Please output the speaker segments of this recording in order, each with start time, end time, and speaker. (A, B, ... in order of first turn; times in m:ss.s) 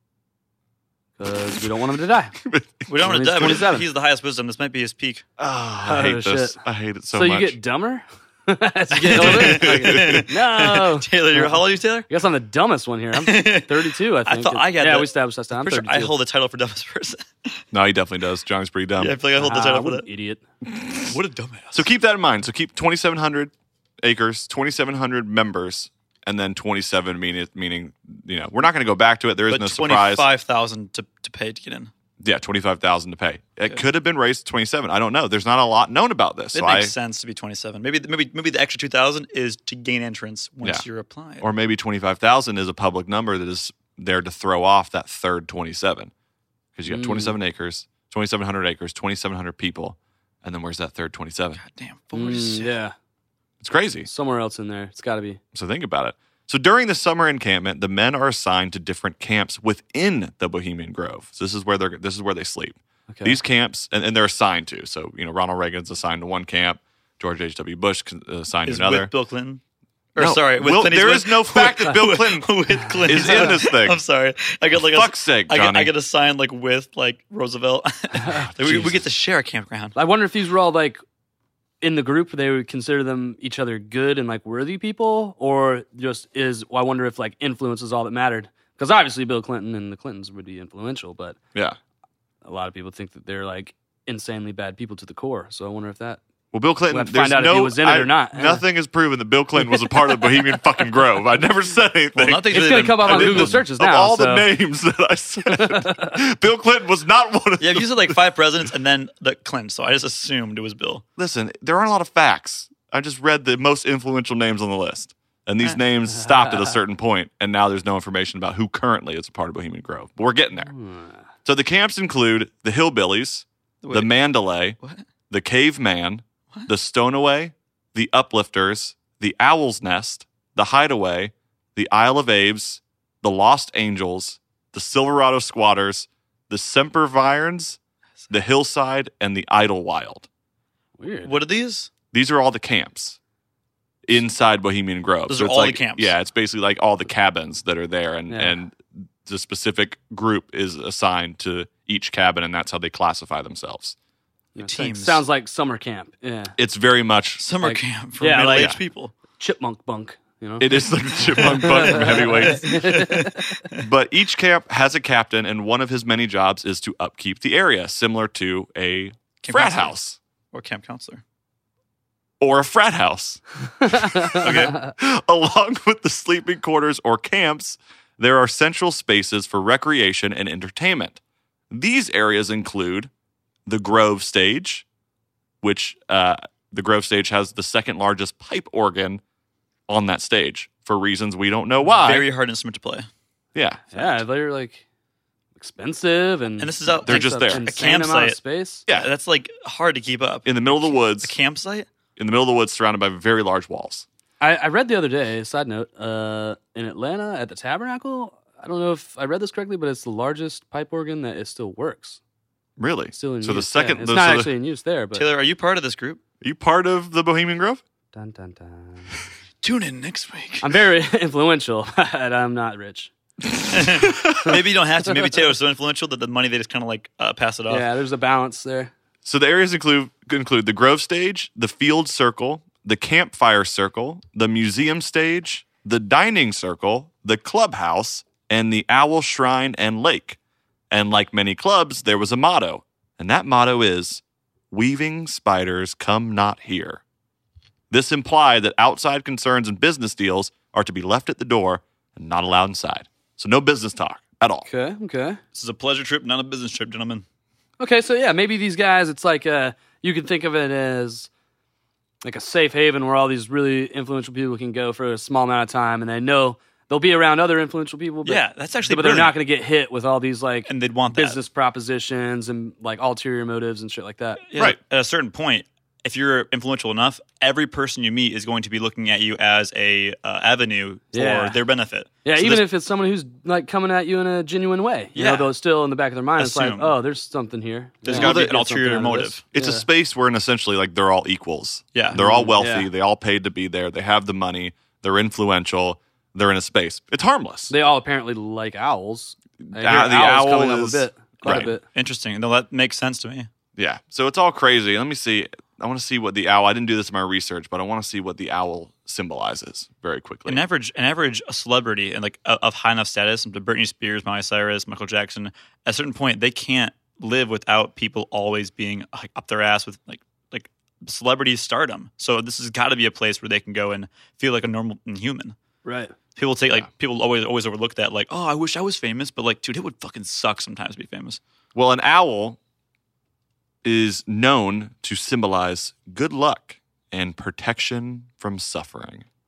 0:01.2-0:02.4 A
0:02.4-0:03.6 B
0:02.9-0:05.2 C
0:03.0-0:03.9 A
0:05.4-0:07.6 B
0:05.8-0:16.1 A
0:08.9-0:12.1 C
0:09.1-0:10.3 B
0:13.2-0:17.6 C
0:17.7-0:19.2 B
0:19.0-0:20.0 C
0:19.4-0:20.4 A
0:20.6-0:21.1 B
0:21.0-0:21.8 C
0:21.7-0:30.3 B
0:29.5-0:31.9 C
0:32.2-0:36.9 B
0:36.5-0:41.5 C
0:41.4-0:46.1 B
0:46.7-0:51.6 B
0:46.8-0:47.4 A
0:51.6-0:52.7 C
0:52.1-0:52.9 A
0:53.6-0:54.1 B
0:54.0-0:55.4 A
0:55.5-1:09.1 B
1:03.1-1:03.4 A
1:08.6-1:09.6 C
1:10.2-1:20.0 C
1:10.2-1:12.5 B
1:13.0-1:14.0 B
1:13.2-1:13.5 A
1:14.8-1:15.9 B
1:18.2-1:19.0 B
1:19.9-1:21.0 A
1:21.8-1:31.4 A
1:32.4-1:36.2 A
1:36.5-1:48.2 B
1:36.9-1:38.6 A
1:39.7-1:40.2 A
1:42.1-1:43.6 C
1:42.5-1:44.5 A
1:45.7-1:46.1 A
1:47.6-1:51.0 C
1:51.2-2:00.7 B
2:00.7-2:01.2 A
2:01.4-2:04.8 B
2:03.8-2:05.0 C
2:05.3-2:17.8 B
2:18.3-2:20.3 B
2:21.0-2:21.4 A
2:21.2-2:21.9 C
2:22.1-2:23.2 B
2:24.0-2:34.0 B
2:25.3-2:26.1 C
2:28.3-2:28.6 A
2:34.6-2:35.2 C
2:34.6-2:36.5 A
2:36.6-2:37.4 B
2:37.4-2:39.1 C
2:37.6-2:38.8 A
2:39.4-2:40.7 A
2:40.6-2:42.7 B
2:41.3-2:43.6 A
2:41.6-2:43.8 C
2:43.8-2:50.2 B
2:49.4-2:49.9 C
2:50.5-2:51.2 C
2:52.4-3:01.2 B
2:53.9-2:54.9 A
2:54.4-2:54.8 C
3:01.7-3:03.1 B
3:03.6-3:04.8 B
3:05.6-3:09.2 B
3:09.9-3:12.3 B
3:12.0-3:13.1 C
3:13.5-3:14.2 B
3:13.9-3:14.8 A
3:15.6-3:18.8 A
3:16.6-3:21.9 C
3:17.0-3:17.6 B
3:20.4-3:21.3 B
3:22.2-3:24.0 B
3:24.4-3:32.2 A
3:32.8-3:34.5 B
3:33.1-3:35.2 A
3:35.1-3:36.2 C
3:36.4-3:37.8 B
3:38.1-3:39.1 A
3:39.6-3:40.7 C
3:40.6-3:43.1 A
3:43.7-3:47.8 C
3:47.7-3:48.9 A
3:49.2-4:00.4 B
4:00.9-4:07.0 B
4:07.9-4:14.6 B
4:14.6-4:15.4 A
4:15.5-4:17.2 C
4:17.8-4:21.3 A
4:22.2-4:34.4 A
4:28.2-4:29.3 C
4:30.7-4:31.4 C
4:34.4-4:42.6 C
4:41.1-4:41.6 A
4:42.2-4:49.8 A
4:45.2-4:45.5 C
4:46.4-4:47.0 C
4:48.0-4:49.4 C
4:48.1-4:48.6 B
4:49.5-4:57.7 B
4:52.1-4:52.9 A
4:57.7-5:01.8 A
4:59.6-5:01.7 B
5:01.4-5:03.5 C
5:03.8-5:10.6 B
5:10.4-5:25.6 C
5:25.8-5:26.1 A
5:26.4-5:31.4 C
5:31.7-5:32.6 B
5:33.8-5:39.2 B